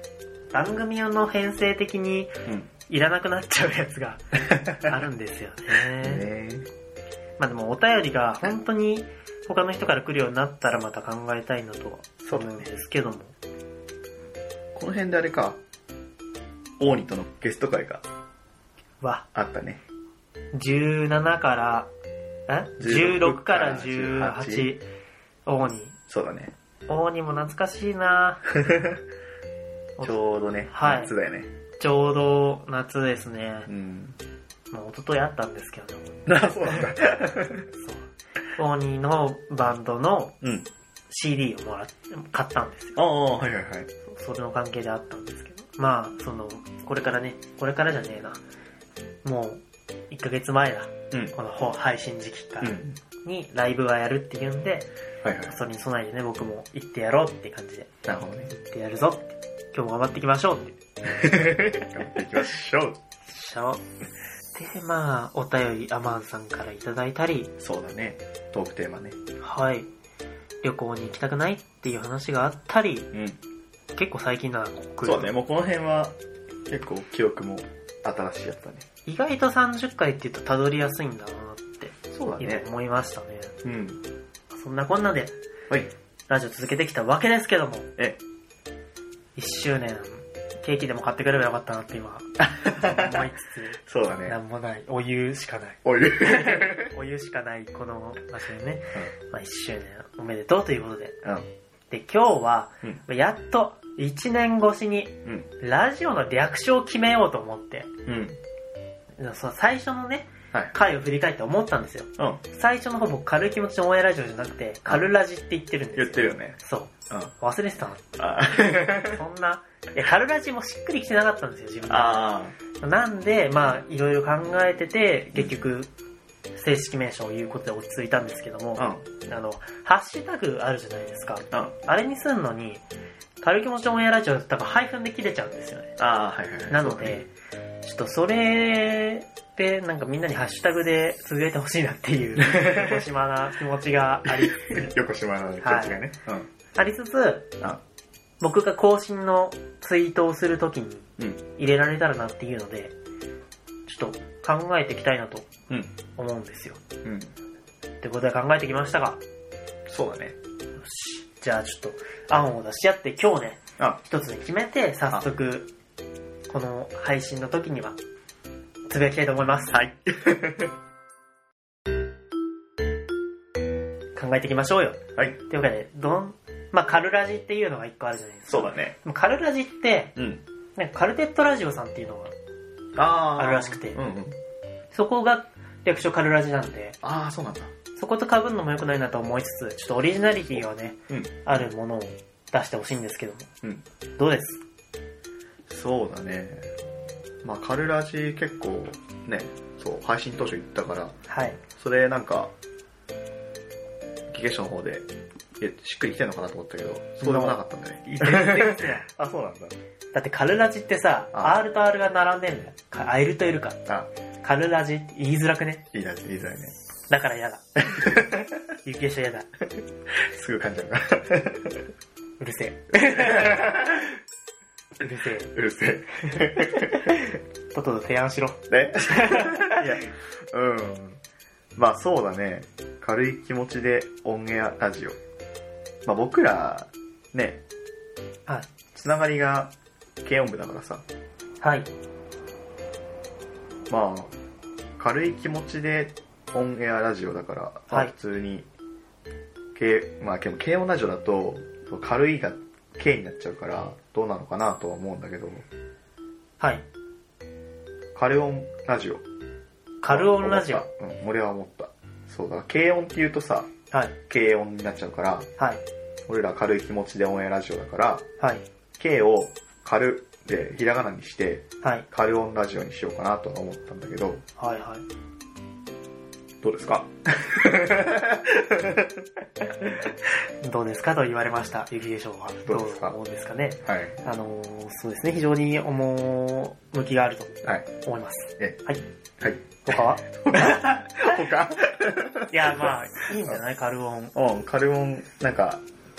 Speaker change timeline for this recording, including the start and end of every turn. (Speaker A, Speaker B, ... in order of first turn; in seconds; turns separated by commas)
Speaker A: 0.5-2.4, Speaker B: 2.5-2.7, Speaker A: 2.9-6.3, Speaker B: 4.5-4.9, Speaker B: 6.0-6.7, Speaker A: 7.4-13.3, Speaker B: 12.2-12.7, Speaker B: 14.7-15.6, Speaker B: 16.8-18.0, Speaker A: 19.0-19.3, Speaker B: 19.4-19.8, Speaker A: 20.5-21.9, Speaker A: 22.5-24.9, Speaker B: 22.8-24.7, Speaker A: 25.5-26.0, Speaker B: 26.1-26.6, Speaker A: 26.9-28.5, Speaker B: 28.6-29.0, Speaker A: 30.0-31.1, Speaker B: 30.0-31.5, Speaker A: 31.8-33.7, Speaker B: 33.7-34.2, Speaker A: 34.7-37.0, Speaker B: 36.3-37.7, Speaker A: 37.7-40.4, Speaker B: 40.4-40.7, Speaker A: 41.1-43.1, Speaker B: 43.0-43.9, Speaker A: 44.0-48.4, Speaker A: 49.2-54.9, Speaker B: 52.6-53.0, Speaker B: 55.2-55.5, Speaker A: 55.5-57.9, Speaker B: 58.0-58.5, Speaker A: 58.5-60.8, Speaker B: 61.1-63.0, Speaker A: 63.3-63.8, Speaker A: 64.5-67.5, Speaker B: 67.6-69.2, Speaker A: 69.4-69.9, Speaker A: 70.6-73.1, Speaker B: 73.1-73.4, Speaker A: 73.9-75.3, Speaker B: 75.0-76.2, Speaker B: 76.7-78.8, Speaker A: 79.1-83.5, Speaker B: 82.1-82.7, Speaker B: 83.6-84.0, Speaker A: 84.5-85.3, Speaker A: 86.3-87.9, Speaker A: 89.4-101.2, Speaker B: 92.4-93.3, Speaker B: 93.9-94.4, Speaker B: 95.8-96.9, Speaker A: 101.9-107.9, Speaker B: 108.1-108.4, Speaker A: 109.2-125.9, Speaker B: 116.0-116.6, Speaker B: 118.2-119.2, Speaker B: 121.9-122.5, Speaker A: 126.5-132.8, Speaker B: 128.8-129.1, Speaker A: 133.4-136.0, Speaker B: 136.0-137.2, Speaker A: 136.7-137.3, Speaker A: 137.8-144.8, Speaker B: 142.5-143.0, Speaker B: 144.3-146.5, Speaker A: 145.6-146.0, Speaker A: 146.8-147.5, Speaker A: 148.4-152.9, Speaker A: 153.9-155.5, Speaker B: 155.7-155.9, Speaker A: 156.2-156.8, Speaker B: 157.0-157.3, Speaker A: 158.0-159.2, Speaker B: 159.9-160.4, Speaker A: 160.8-165.7, Speaker A: 166.5-168.0, Speaker A: 168.9-169.8, Speaker B: 169.7-170.7, Speaker A: 174.2-180.2, Speaker B: 178.5-178.9, Speaker B: 180.2-180.4, Speaker A: 180.8-182.3, Speaker B: 183.0-184.4, Speaker A: 183.4-184.0, Speaker A: 184.9-187.0, Speaker B: 187.0-187.7, Speaker A: 188.0-193.5, Speaker B: 190.5-191.4, Speaker A: 194.2-194.6, Speaker B: 195.7-196.7, Speaker B: 197.4-201.1, Speaker A: 201.3-201.6, Speaker B: 201.8-202.5, Speaker B: 204.3-205.1, Speaker B: 205.6-209.8, Speaker A: 207.2-207.6, Speaker A: 208.2-209.1, Speaker A: 210.1-213.8, Speaker B: 211.3-211.6, Speaker A: 214.4-215.8, Speaker B: 215.9-216.8, Speaker A: 217.1-217.6, Speaker B: 217.8-218.6, Speaker A: 218.8-219.5, Speaker B: 220.2-221.9, Speaker A: 222.4-224.0, Speaker B: 222.9-224.1, Speaker A: 225.0-225.5, Speaker B: 225.5-227.2, Speaker A: 226.6-227.2, Speaker A: 227.7-229.8, Speaker B: 228.7-231.2, Speaker B: 231.8-235.2, Speaker B: 236.1-237.6, Speaker B: 239.0-239.7, Speaker B: 240.2-241.0, Speaker A: 241.6-241.9, Speaker B: 243.9-244.3, Speaker B: 245.0-248.7, Speaker B: 249.8-255.6, Speaker B: 258.2-259.2, Speaker A: 260.0-260.9, Speaker B: 260.1-263.7, Speaker A: 263.9-264.2, Speaker B: 264.3-265.5, Speaker B: 266.3-268.2, Speaker B: 269.0-274.4, Speaker A: 274.6-275.0, Speaker B: 276.6-279.2, Speaker A: 280.6-289.0, Speaker B: 282.6-283.2, Speaker B: 283.9-284.2, Speaker B: 289.4-289.8, Speaker A: 289.8-290.8, Speaker B: 290.3-293.6, Speaker A: 292.5-294.3, Speaker B: 294.4-295.8